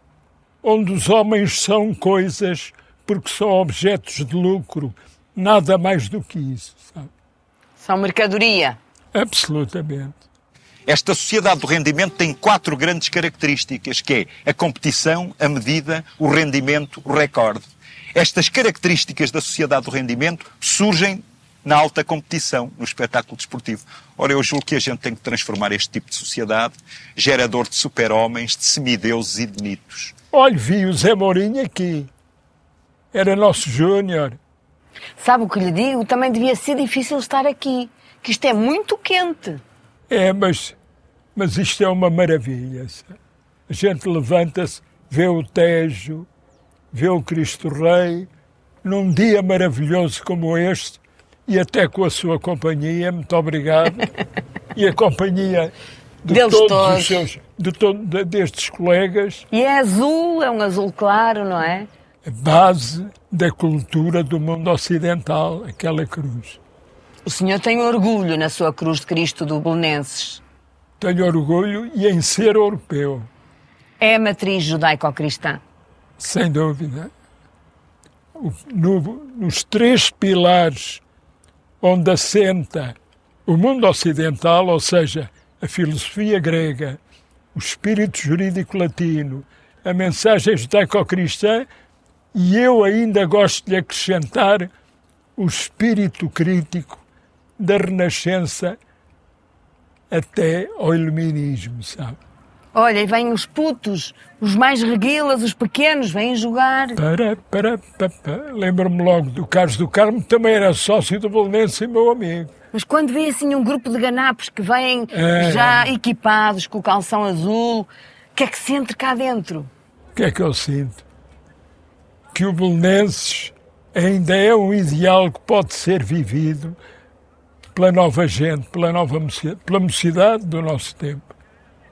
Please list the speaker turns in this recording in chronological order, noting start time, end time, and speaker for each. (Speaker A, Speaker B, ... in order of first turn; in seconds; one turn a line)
Speaker A: 0.6-7.1
Speaker B: 7.8-8.8
Speaker A: 9.1-10.2
Speaker C: 10.9-30.1
Speaker A: 30.3-32.1
Speaker A: 33.1-34.4
Speaker B: 35.2-39.6
Speaker A: 40.1-40.8
Speaker A: 41.3-43.1
Speaker A: 43.7-46.3
Speaker A: 46.9-48.3
Speaker A: 48.8-54.1
Speaker A: 54.7-55.7
Speaker A: 56.2-59.4
Speaker B: 56.3-57.2
Speaker B: 59.5-61.9
Speaker A: 62.2-66.6
Speaker B: 67.2-70.4
Speaker A: 71.0-73.3
Speaker B: 74.0-75.6
Speaker A: 76.2-77.1
Speaker A: 78.3-81.0
Speaker A: 81.8-87.0
Speaker A: 87.5-91.7
Speaker A: 92.3-94.7
Speaker A: 95.4-97.0
Speaker A: 97.6-98.8
Speaker A: 100.1-102.2
Speaker B: 102.7-107.0
Speaker A: 107.0-112.5
Speaker B: 112.7-119.7
Speaker A: 115.1-115.9
Speaker A: 120.1-121.0
Speaker A: 122.3-126.8
Speaker A: 127.7-131.3